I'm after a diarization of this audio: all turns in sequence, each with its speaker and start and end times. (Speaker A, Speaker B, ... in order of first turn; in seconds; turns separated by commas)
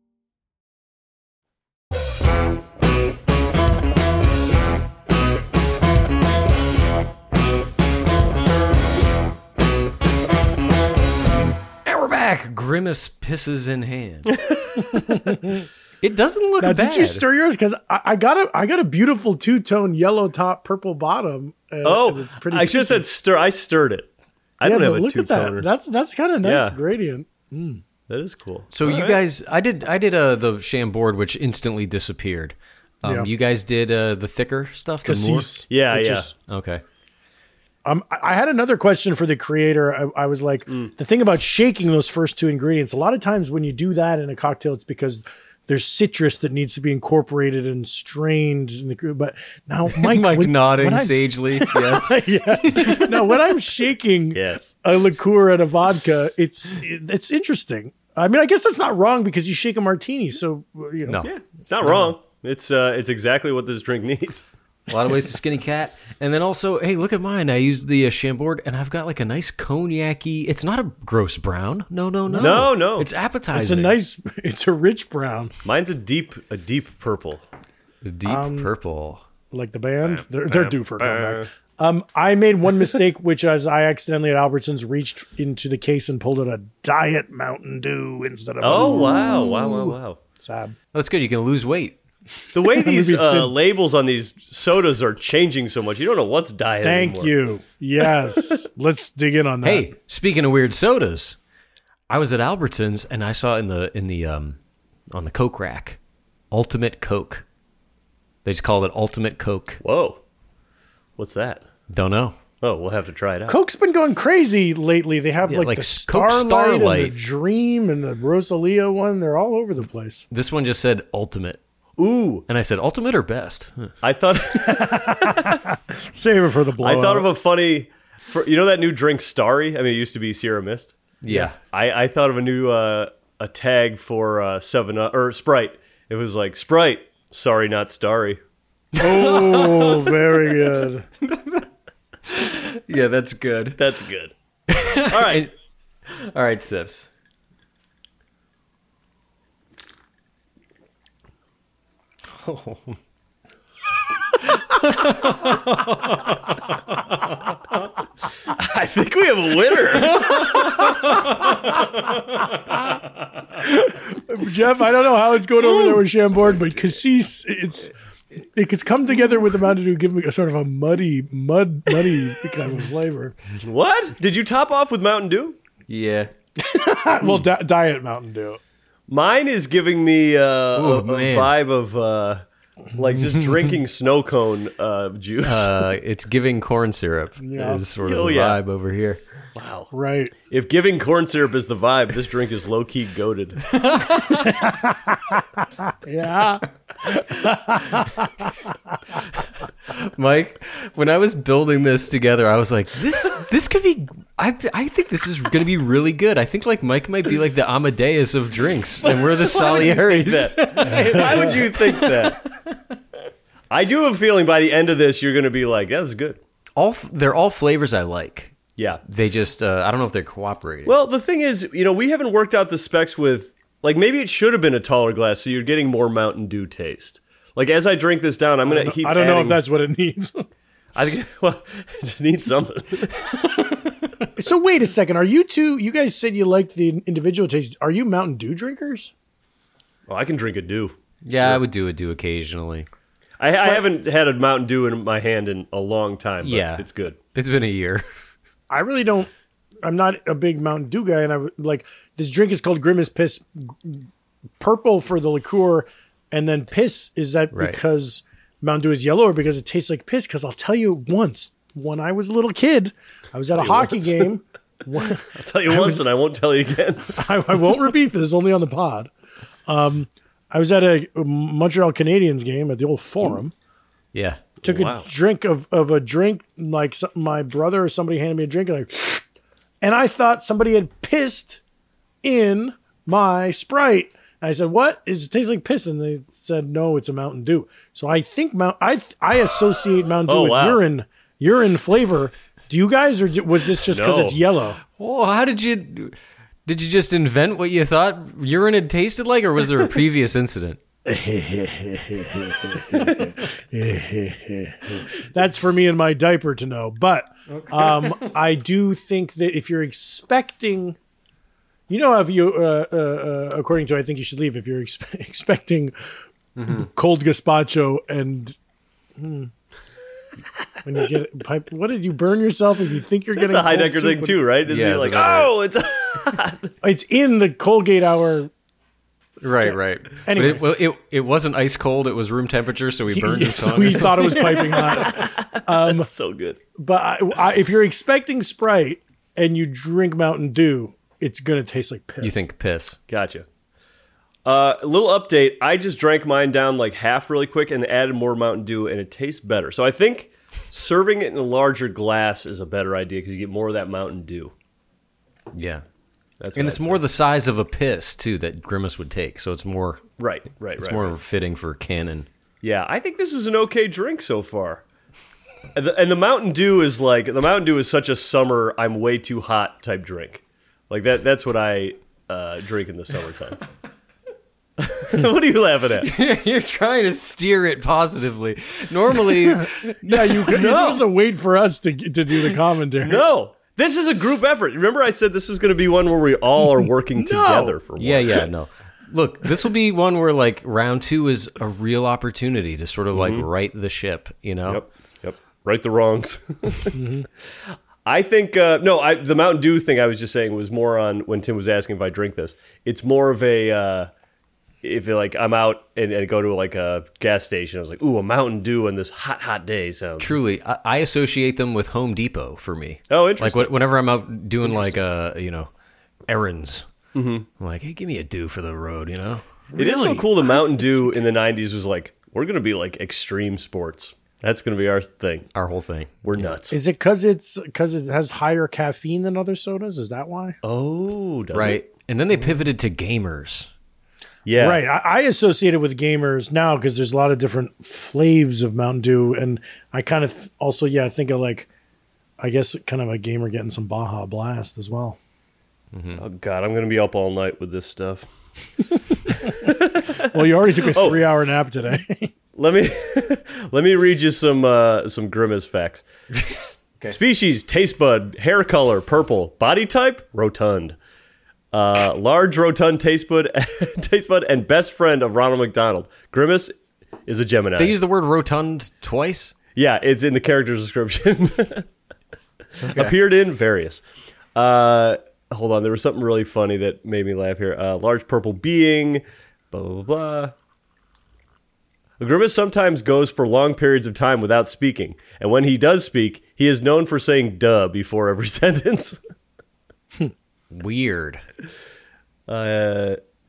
Speaker A: 11.8-14.4, Speaker B: 14.3-14.7, Speaker C: 14.9-15.7, Speaker A: 16.0-17.2, Speaker C: 16.6-23.0, Speaker B: 21.8-25.7, Speaker C: 24.6-27.8, Speaker B: 26.4-26.8, Speaker B: 28.1-29.2, Speaker A: 28.7-35.6, Speaker C: 33.0-33.3, Speaker C: 35.0-36.3, Speaker B: 35.7-36.3, Speaker A: 36.5-36.8, Speaker C: 37.8-61.2, Speaker A: 49.9-53.3, Speaker B: 54.3-54.7, Speaker B: 61.2-64.4, Speaker A: 61.8-62.1, Speaker A: 64.9-74.0, Speaker C: 72.3-72.7, Speaker B: 72.4-73.1, Speaker C: 73.5-75.5, Speaker B: 75.6-77.4, Speaker A: 78.0-79.2, Speaker C: 78.2-78.7, Speaker C: 79.5-90.7, Speaker B: 80.0-81.5, Speaker B: 88.6-90.2, Speaker A: 90.9-92.0, Speaker B: 92.5-97.3, Speaker C: 92.5-93.5, Speaker C: 96.8-99.9, Speaker A: 99.6-101.3, Speaker A: 102.1-104.6, Speaker A: 105.1-106.0, Speaker A: 106.5-107.4, Speaker A: 108.4-109.8, Speaker B: 109.8-110.2, Speaker B: 111.2-111.6, Speaker A: 111.9-112.4, Speaker B: 112.6-113.6, Speaker C: 113.5-120.2, Speaker A: 115.5-117.1, Speaker A: 120.3-121.6, Speaker B: 122.0-122.5, Speaker A: 122.5-123.9, Speaker B: 124.0-125.6, Speaker C: 124.6-127.3, Speaker B: 126.8-130.9, Speaker A: 131.2-131.6, Speaker B: 131.7-138.4, Speaker A: 139.0-140.1, Speaker C: 139.0-141.1, Speaker A: 141.2-141.6, Speaker A: 142.3-143.8, Speaker B: 143.8-144.3, Speaker A: 144.7-145.5, Speaker B: 145.0-145.5, Speaker A: 146.1-147.1, Speaker A: 152.4-153.0, Speaker A: 154.7-156.6, Speaker B: 158.5-160.5, Speaker A: 160.2-161.2, Speaker C: 163.6-167.9, Speaker C: 168.4-173.3, Speaker B: 173.6-175.6, Speaker A: 175.9-176.3, Speaker C: 176.6-178.6, Speaker B: 179.1-182.4, Speaker A: 180.8-181.5, Speaker B: 182.9-185.8, Speaker A: 185.4-189.2, Speaker C: 187.4-187.8, Speaker B: 188.0-188.6, Speaker B: 189.5-189.9, Speaker C: 189.9-190.3, Speaker B: 190.4-193.6, Speaker A: 193.7-194.6, Speaker C: 194.5-195.2, Speaker C: 196.0-198.5, Speaker A: 199.9-212.5, Speaker B: 209.0-212.4, Speaker B: 213.7-216.4, Speaker A: 216.8-220.9, Speaker B: 218.8-219.0, Speaker B: 220.8-229.6, Speaker C: 228.6-230.5, Speaker B: 230.9-233.3, Speaker C: 234.4-239.1, Speaker B: 240.1-241.6, Speaker A: 241.2-242.9, Speaker B: 243.4-247.2, Speaker A: 246.4-248.1, Speaker C: 248.7-249.3, Speaker C: 249.8-254.1, Speaker C: 254.6-266.0, Speaker A: 257.5-257.8, Speaker B: 263.6-264.3, Speaker B: 265.3-267.2, Speaker C: 267.1-269.1, Speaker C: 269.7-273.5, Speaker A: 274.1-274.4, Speaker B: 274.6-275.1, Speaker C: 274.6-279.2, Speaker C: 279.8-281.6, Speaker C: 282.2-294.8, Speaker B: 290.2-290.8, Speaker B: 293.9-294.4, Speaker A: 295.0-296.1, Speaker A: 296.6-300.8, Speaker C: 301.1-310.9, Speaker A: 307.5-308.4, Speaker C: 311.9-315.9, Speaker A: 316.6-316.9, Speaker C: 316.7-318.5, Speaker C: 319.2-319.5, Speaker C: 320.8-324.4, Speaker B: 323.3-326.7, Speaker A: 324.7-325.5, Speaker C: 326.8-328.5, Speaker C: 329.4-330.6, Speaker A: 329.4-334.6, Speaker C: 333.1-336.1, Speaker B: 334.4-336.6, Speaker C: 336.8-342.4, Speaker A: 342.2-343.0, Speaker B: 343.1-343.4, Speaker B: 344.4-354.5, Speaker A: 355.5-355.8, Speaker B: 356.4-357.0, Speaker A: 356.5-360.0, Speaker B: 360.2-361.1, Speaker A: 360.8-362.3, Speaker B: 362.6-364.8, Speaker B: 365.7-373.6, Speaker B: 374.8-376.1, Speaker A: 376.0-380.5, Speaker C: 379.5-383.2, Speaker B: 380.5-381.1, Speaker B: 383.0-388.4, Speaker C: 387.2-387.7, Speaker A: 388.0-394.8, Speaker B: 393.1-393.4, Speaker B: 394.7-396.9, Speaker C: 396.9-397.3, Speaker B: 398.0-404.1, Speaker B: 404.8-410.4, Speaker A: 410.2-415.7, Speaker B: 413.1-413.7, Speaker B: 414.6-414.9, Speaker A: 416.3-416.9, Speaker B: 417.1-417.5, Speaker A: 417.6-419.4, Speaker C: 419.7-421.2, Speaker B: 419.8-425.5, Speaker A: 425.5-426.5, Speaker B: 426.2-426.8, Speaker C: 426.7-430.6, Speaker B: 430.6-431.8, Speaker A: 431.5-433.7, Speaker B: 434.4-434.8, Speaker C: 434.6-441.7, Speaker C: 442.4-445.2, Speaker A: 445.9-446.2, Speaker B: 446.2-448.3, Speaker B: 449.3-451.3, Speaker C: 449.4-452.3, Speaker B: 452.6-456.1, Speaker B: 457.1-460.9, Speaker B: 461.7-466.7, Speaker B: 467.3-467.9, Speaker A: 467.8-469.5, Speaker B: 469.7-471.9, Speaker A: 472.8-473.1, Speaker B: 472.9-474.0, Speaker B: 474.5-480.5, Speaker B: 482.2-489.2, Speaker A: 490.7-491.4, Speaker B: 492.5-493.2